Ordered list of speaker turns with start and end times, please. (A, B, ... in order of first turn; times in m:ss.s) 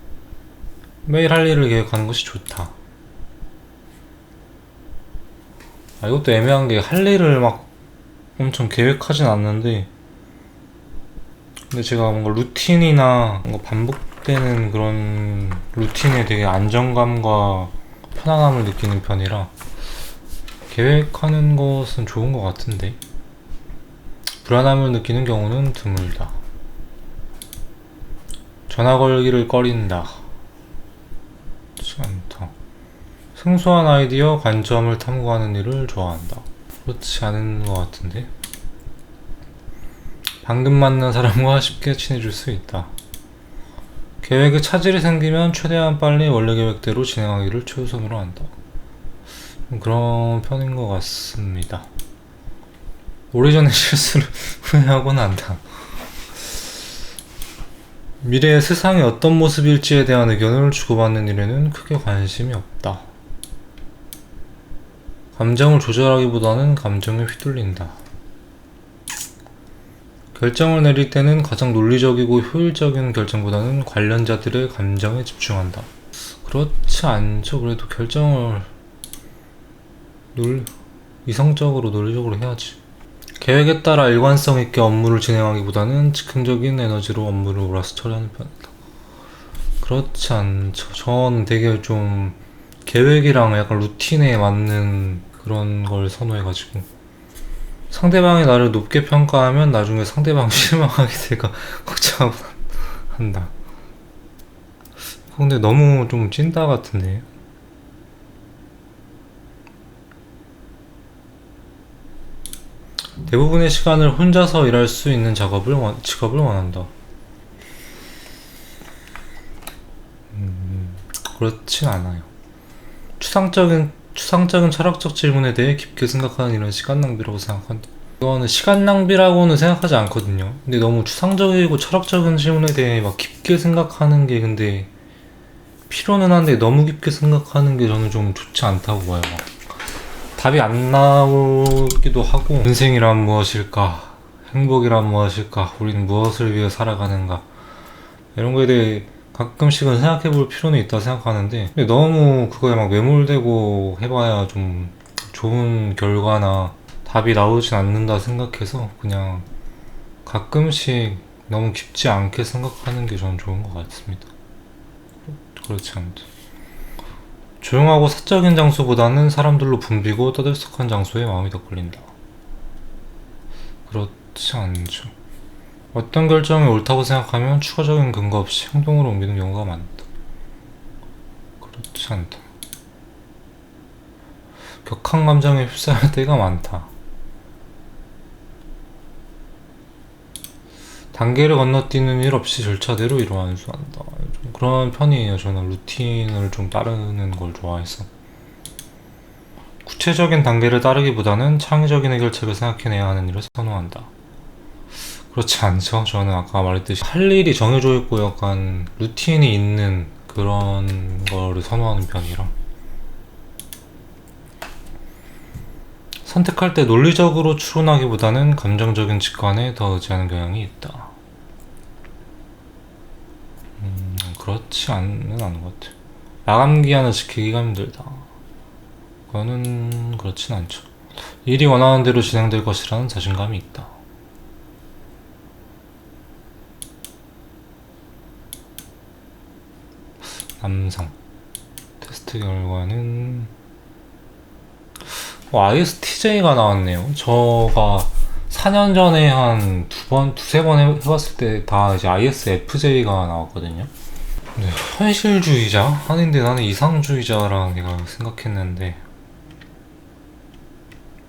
0:01.0-0:02.7 A
0:06.0-0:07.7 A
0:08.4-0:09.9 A
0:11.7-0:19.5 A
0:20.7-0:23.0 A
0:24.4-0:26.3 A
0:28.7-0:30.2 A
0:31.8-0:32.5 A
0:33.4-0:38.3 A
0:40.4-0:42.9 A
0:44.2-0:48.5 A
0:49.7-0:51.9 A
0:53.3-0:55.6 A
0:58.2-1:03.1 A
1:05.4-1:08.0 A
1:10.3-1:18.7 A
1:20.3-1:20.7 A
1:21.2-1:22.8 A
1:23.4-1:28.7 A
1:29.8-1:36.9 A
1:37.9-1:43.5 A
1:45.3-1:47.3 A
1:53.2-1:56.9 A
2:00.3-2:02.3 A
2:03.2-2:14.9 A
2:15.9-2:19.5 A
2:20.4-2:27.4 A
2:28.4-2:39.4 A
2:40.2-2:44.3 A
2:45.3-2:46.2 A
2:47.6-2:52.1 A
2:53.9-2:55.1 A
2:55.9-3:00.0 A
3:01.6-3:02.4 A
3:04.8-3:06.9 A
3:11.1-3:18.1 A
3:19.8-3:24.1 A
3:25.3-3:32.5 A
3:36.2-3:41.1 A
3:43.8-3:45.9 A
3:46.4-3:48.2 A
3:49.3-3:50.9 A
3:51.4-3:53.9 A
4:00.5-4:01.1 A
4:02.0-4:03.5 A
4:05.1-4:13.9 A
4:14.5-4:19.0 A